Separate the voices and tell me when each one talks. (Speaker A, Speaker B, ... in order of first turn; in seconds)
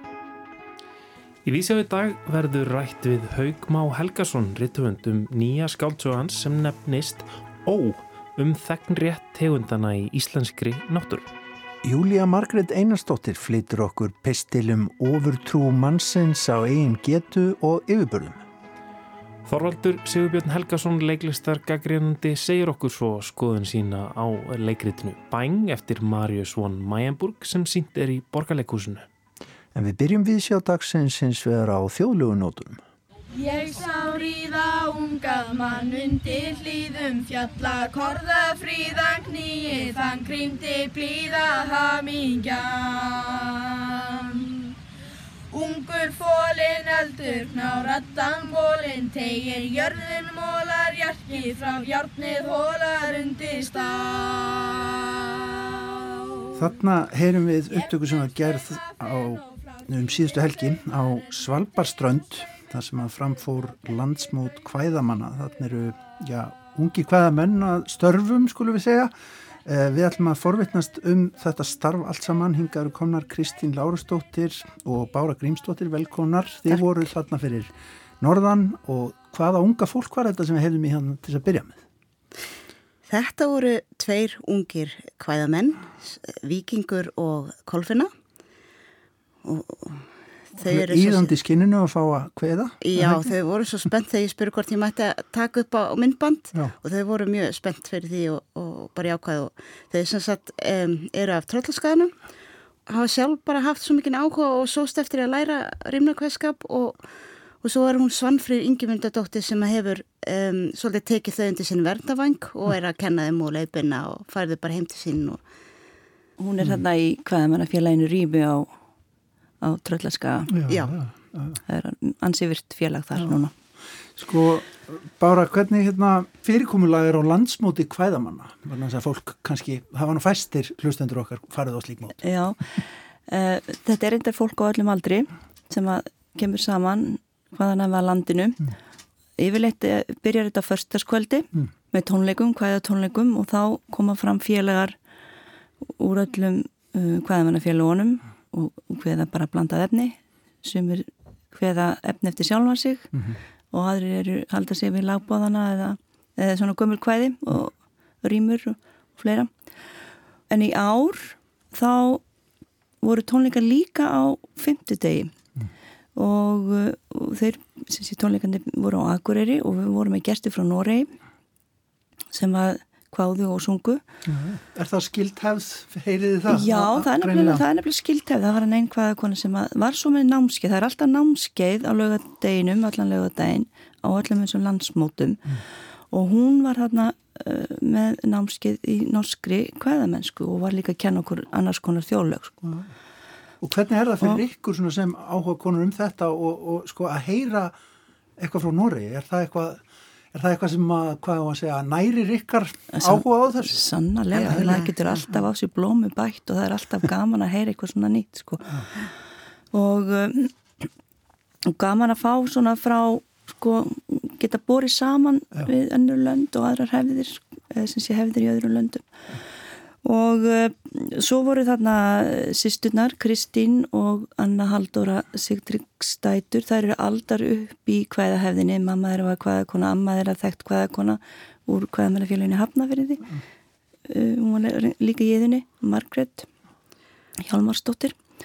Speaker A: 1.4-11.3, 19.4-29.1
Speaker B: 11.8-18.4, 29.7-32.8, 56.5-69.1, 69.6-77.7, 78.2-81.8, 90.6-93.3, 120.5-121.6, 124.2-132.2, 174.2-177.6, 193.6-197.7, 198.4-203.8, 204.4-204.8
Speaker C: 33.3-44.7, 45.5-55.8
Speaker D: 83.1-88.1, 89.4-91.4, 92.8-102.1, 102.9-107.0, 107.6-115.4, 120.7-121.0, 204.3-205.2
Speaker E: 116.4-118.7, 119.6-120.5, 121.7-123.5, 132.2-138.7, 139.4-144.9, 146.0-153.1, 153.7-159.5, 160.5-162.2, 163.0-165.3, 166.1-171.1, 172.3-174.0, 176.5-185.4, 186.1-192.7, 202.9-208.8, 209.7-210.9, 211.6-219.0, 220.0-233.3, 234.1-236.5, 237.4-238.2